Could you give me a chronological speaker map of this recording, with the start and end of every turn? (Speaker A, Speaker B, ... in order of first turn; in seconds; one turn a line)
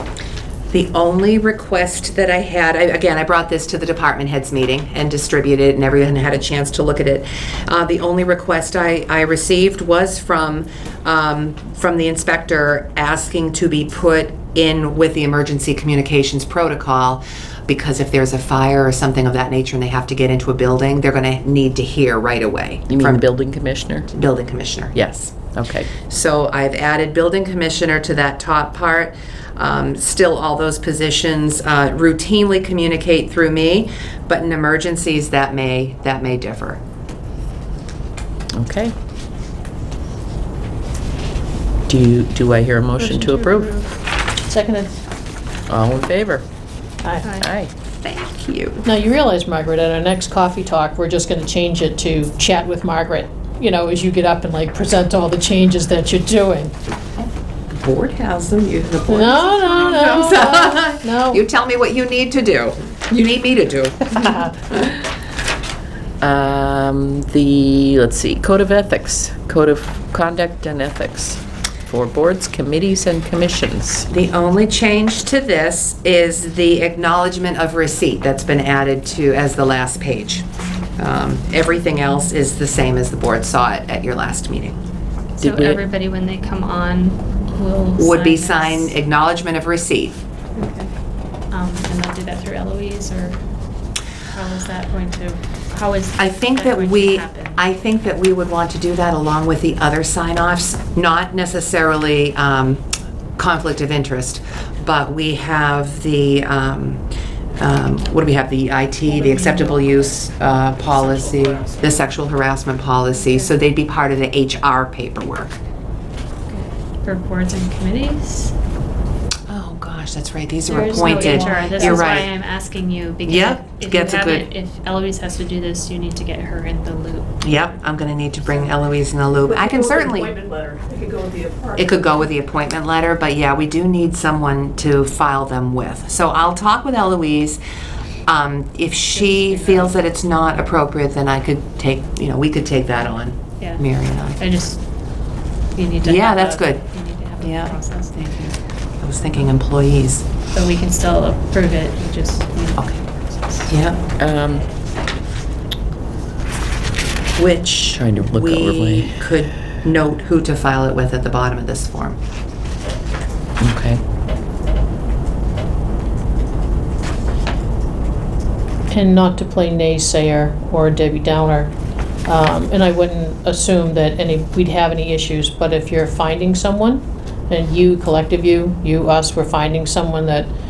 Speaker A: 0.7-23.2
Speaker B: 22.9-24.1
Speaker A: 24.1-25.3
Speaker B: 24.9-25.9
Speaker A: 25.9-36.8
Speaker B: 38.5-38.9
Speaker B: 41.9-43.7
Speaker C: 43.0-44.0
Speaker D: 44.5-45.0
Speaker B: 45.7-46.4
Speaker D: 47.0-47.4
Speaker C: 47.2-47.5
Speaker B: 47.4-47.7
Speaker A: 48.0-48.9
Speaker D: 48.8-56.7
Speaker A: 57.2-65.0
Speaker D: 59.1-61.4
Speaker B: 66.2-74.1
Speaker A: 74.1-80.5
Speaker A: 81.0-84.8
Speaker B: 85.4-85.8
Speaker C: 85.4-89.0
Speaker A: 88.0-90.2
Speaker C: 90.5-93.5
Speaker C: 94.2-97.6
Speaker A: 96.2-102.8
Speaker A: 103.4-107.0
Speaker A: 107.6-115.6
Speaker E: 109.3-110.0
Speaker E: 110.9-111.9
Speaker C: 113.1-113.5
Speaker C: 116.5-118.5
Speaker A: 119.5-122.3
Speaker C: 120.7-127.6
Speaker E: 121.1-122.0
Speaker A: 123.3-124.5
Speaker A: 127.4-130.3
Speaker E: 129.5-132.0
Speaker A: 131.8-137.6
Speaker A: 138.3-144.4
Speaker C: 139.1-140.0
Speaker C: 144.4-144.8
Speaker C: 145.7-148.5
Speaker A: 146.0-146.8
Speaker A: 147.4-147.8
Speaker A: 149.0-150.2
Speaker C: 150.5-153.7
Speaker A: 153.7-154.0
Speaker B: 154.2-154.7
Speaker A: 157.4-162.2
Speaker B: 157.9-159.2
Speaker B: 163.6-164.0
Speaker D: 168.9-171.7
Speaker D: 172.2-180.5